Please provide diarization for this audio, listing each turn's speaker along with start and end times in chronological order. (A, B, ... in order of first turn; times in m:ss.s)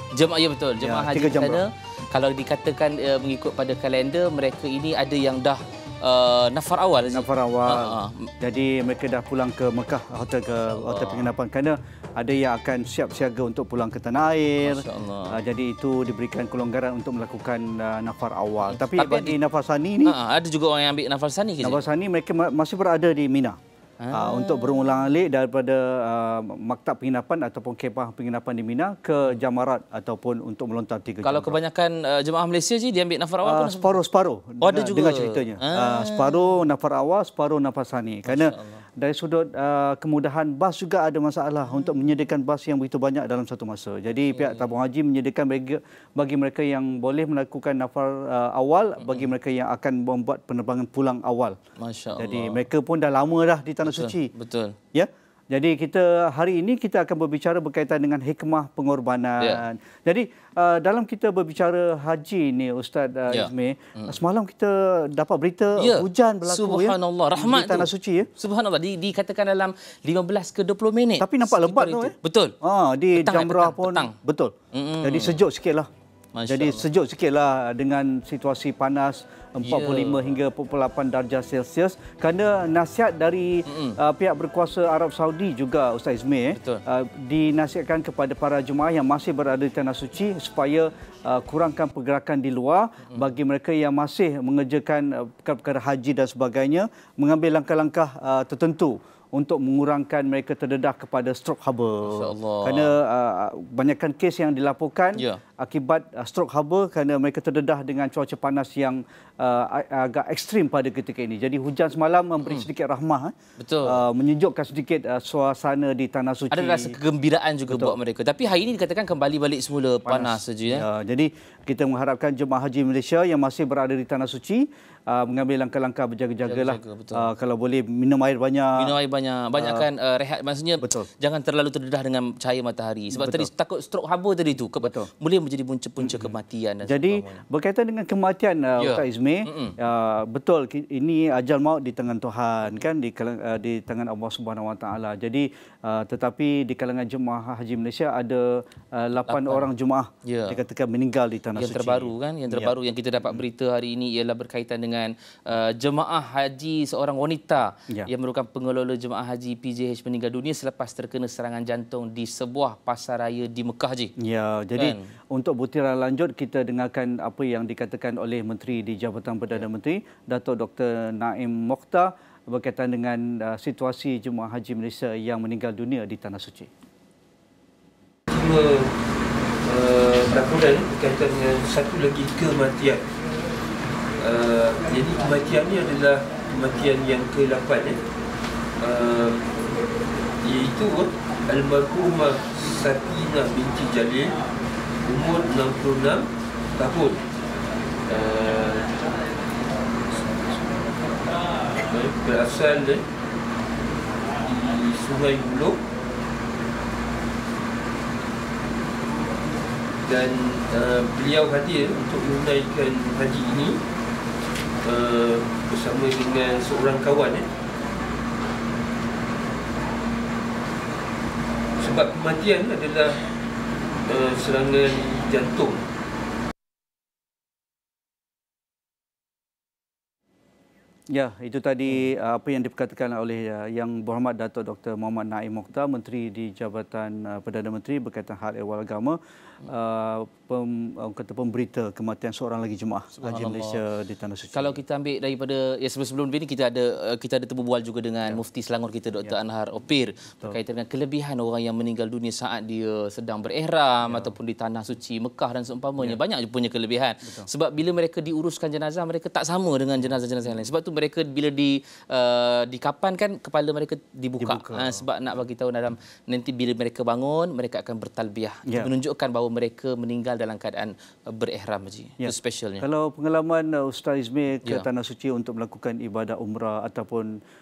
0:00.1-0:08.3 A
0:00.8-0:01.6 B
0:07.1-0:07.7 B
0:08.4-0:20.2 B
0:10.7-0:11.3 A
0:14.6-0:15.4 A
0:18.6-0:19.4 A
0:20.0-0:21.8 A
0:21.6-0:23.6 B
0:24.0-0:24.9 A
0:24.1-0:31.6 B
0:31.2-0:34.0 A
0:33.4-0:51.6 B
0:34.6-0:36.5 A
0:38.3-0:38.8 A
0:44.4-0:44.7 A
0:51.8-0:52.6 A
0:52.2-0:54.3 B
0:53.8-0:54.8 A
0:54.9-1:08.3 B
1:03.3-1:04.2 A
1:05.8-1:12.6 A
1:11.2-1:15.9 B
1:13.2-1:14.1 A
1:14.7-1:15.4 A
1:16.4-1:16.9 A
1:16.5-1:57.0 B
1:19.6-1:20.4 A
1:23.7-1:24.0 A
1:26.6-1:26.8 A
1:42.0-1:42.9 A
1:45.2-1:45.4 A
1:53.6-1:54.0 A
1:56.5-2:00.9 A
1:57.7-1:58.0 B
2:00.1-2:08.9 B
2:06.4-2:07.3 A
2:08.8-2:17.4 A
2:09.6-2:09.8 B
2:13.1-2:13.5 B
2:14.8-2:15.1 B
2:16.9-2:32.7 B
2:18.8-2:19.8 A
2:29.3-2:29.7 A
2:30.2-2:30.6 A
2:31.6-2:44.1 A
2:44.2-2:56.7 B
2:44.8-2:45.1 A
2:58.3-2:58.9 C
2:59.6-3:03.0 C
3:04.2-3:08.0 C
3:08.8-3:09.4 C
3:10.4-3:14.4 C
3:15.0-3:16.3 C
3:16.8-3:17.2 C
3:18.1-3:19.0 C
3:20.1-3:20.6 C
3:21.8-3:23.0 C
3:24.4-3:25.8 C
3:30.1-3:33.8 C
3:34.8-3:37.5 C
3:41.8-3:43.3 C
3:44.1-3:45.8 C
3:51.1-4:04.8 B
4:03.2-4:03.8 A
4:04.5-4:32.9 A
4:24.4-4:25.0 B
4:32.2-4:37.3 B